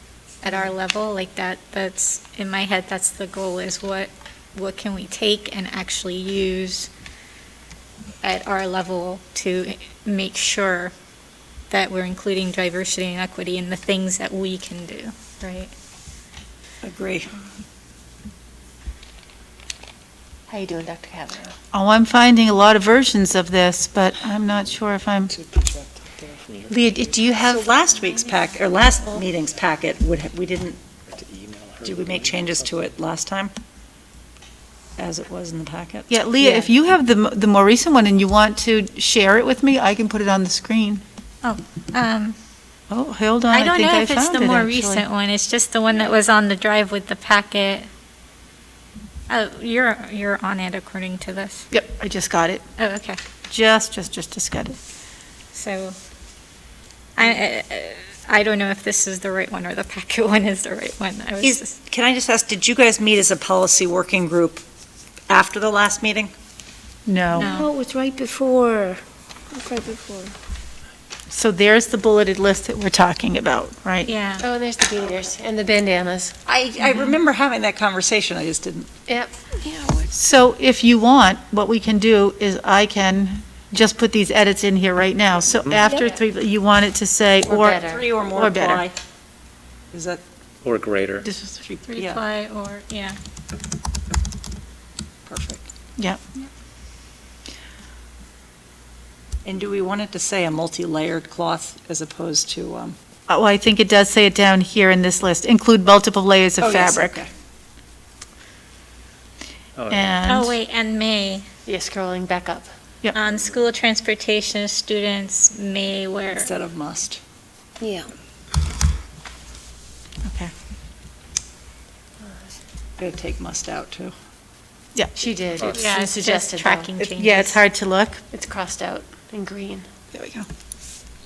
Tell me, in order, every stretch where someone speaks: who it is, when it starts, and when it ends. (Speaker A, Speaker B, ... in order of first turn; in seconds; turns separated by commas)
Speaker A: 0.4-6.9, Speaker A: 8.2-10.9, Speaker A: 11.7-15.7, Speaker B: 16.8-17.3, Speaker C: 20.5-21.6, Speaker D: 21.7-25.3, Speaker E: 25.3-27.2, Speaker C: 26.7-27.7, Speaker B: 27.4-30.8, Speaker E: 31.1-32.8, Speaker B: 31.8-33.5, Speaker B: 35.0-36.1, Speaker D: 36.1-41.0, Speaker C: 36.4-36.7, Speaker A: 41.4-42.4, Speaker D: 42.9-45.0, Speaker A: 43.5-47.9, Speaker A: 49.3-51.7, Speaker D: 51.7-52.6, Speaker A: 52.8-53.2, Speaker D: 53.5-54.8, Speaker A: 55.5-56.0, Speaker A: 57.2-61.7, Speaker B: 61.4-64.6, Speaker B: 65.3-66.3, Speaker D: 67.1-67.5, Speaker A: 67.3-67.7, Speaker F: 67.4-70.3, Speaker D: 71.3-74.1, Speaker A: 74.1-74.5, Speaker C: 74.4-76.3, Speaker B: 76.5-78.9, Speaker C: 79.1-79.3, Speaker F: 79.6-80.1, Speaker D: 80.1-88.9, Speaker E: 85.7-85.9, Speaker C: 87.5-88.1, Speaker B: 87.9-89.0, Speaker B: 89.9-90.2, Speaker E: 90.6-91.3, Speaker D: 91.2-91.7, Speaker B: 91.8-92.2, Speaker A: 91.9-93.2, Speaker B: 95.3-95.7, Speaker B: 99.5-103.0, Speaker D: 103.3-107.2, Speaker B: 106.6-107.3, Speaker E: 109.8-110.2, Speaker D: 109.9-110.6, Speaker A: 110.3-111.5, Speaker C: 111.7-112.7, Speaker A: 113.1-116.5, Speaker B: 116.3-117.2, Speaker F: 117.8-118.1, Speaker D: 120.2-120.5, Speaker B: 123.0-124.2, Speaker C: 125.2-126.9, Speaker E: 125.6-125.9, Speaker A: 125.7-127.6, Speaker D: 127.0-128.2, Speaker C: 128.3-129.9, Speaker D: 130.1-130.5